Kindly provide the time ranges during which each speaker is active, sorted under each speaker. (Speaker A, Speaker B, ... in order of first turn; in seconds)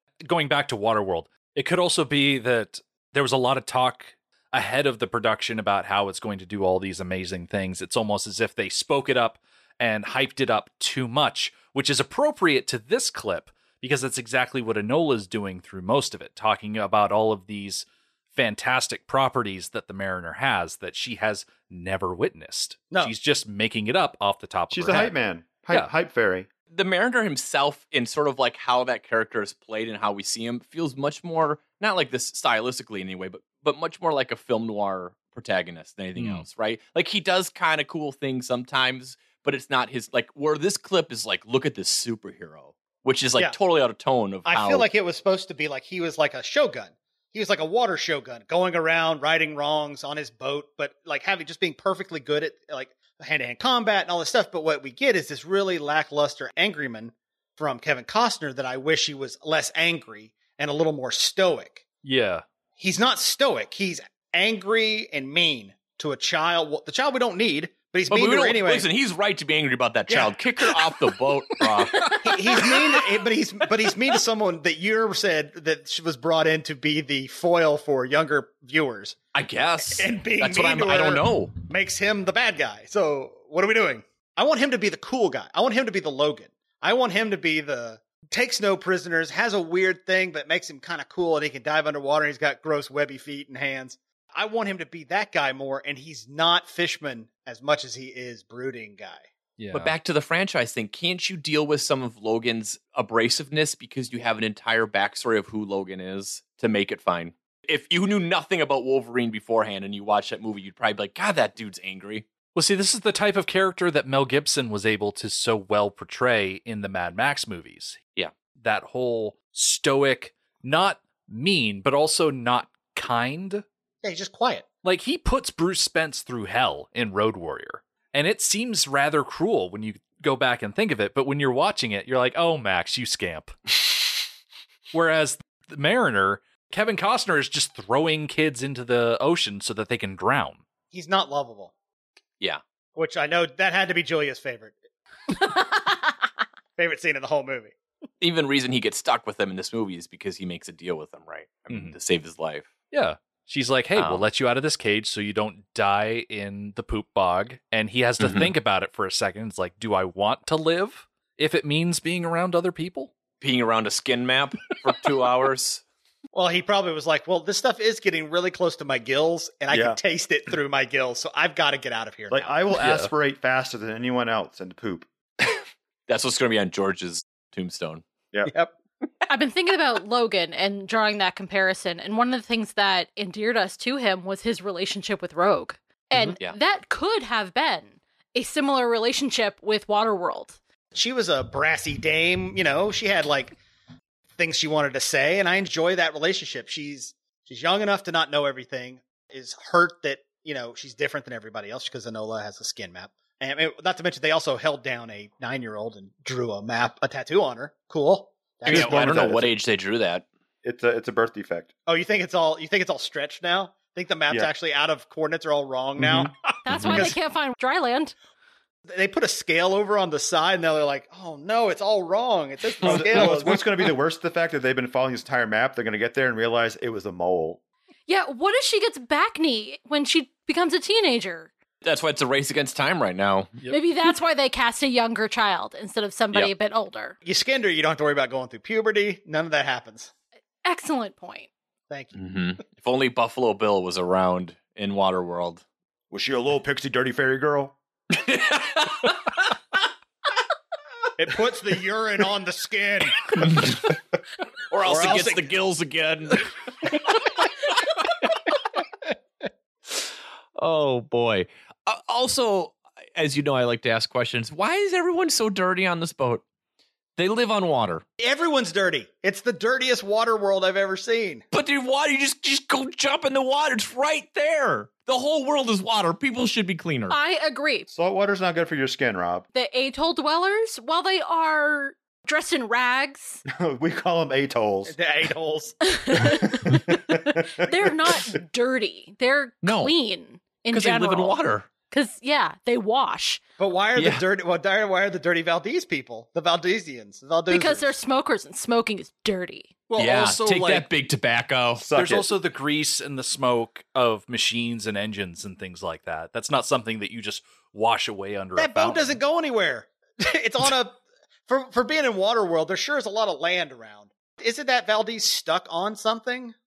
Speaker A: 0.2-25.1, 36.1-36.5, 62.0-62.4, 99.6-99.9, 112.5-118.0, 118.6-123.6, 124.8-133.6, 134.9-140.6, 151.7-151.9, 152.9-163.2, 172.8-173.1, 299.9-300.9, 301.9-309.2
Speaker B: 24.7-26.5, 169.7-170.0, 172.3-175.1, 208.7-209.5, 210.6-211.7, 216.0-216.3, 222.8-227.6, 246.1-247.8, 277.9-279.4, 283.5-284.9, 286.5-287.9, 301.8-302.3
Speaker C: 26.7-44.9, 68.1-72.8, 79.3-81.6, 99.7-112.3, 148.2-152.7, 153.9-154.2, 158.2-158.5, 163.4-165.8, 175.5-178.0, 208.6-210.2, 231.8-233.5, 242.1-245.6, 248.1-249.5, 253.4-253.8, 254.7-256.5, 260.6-266.4, 267.2-268.0, 271.5-277.2, 289.6-289.9, 290.7-291.7, 293.9-294.2, 300.0-301.9
Speaker D: 44.5-61.8, 62.8-68.9, 70.1-70.3, 72.2-79.2, 79.8-99.3, 124.0-124.7, 140.9-141.7, 142.9-144.8, 146.8-147.7, 166.3-172.6, 178.5-178.7, 190.9-193.6, 194.4-209.3, 211.9-217.1, 218.9-223.6, 237.2-240.1, 241.9-242.2, 251.2-253.7, 254.8-255.5, 268.2-271.4, 284.9-285.8, 293.6-297.9, 308.6-316.5
Speaker E: 179.3-190.6, 216.6-218.1, 228.1-231.5, 233.7-237.2, 240.6-241.5, 277.1-277.9, 279.5-283.4, 285.9-291.4, 291.9-293.4, 297.5-299.7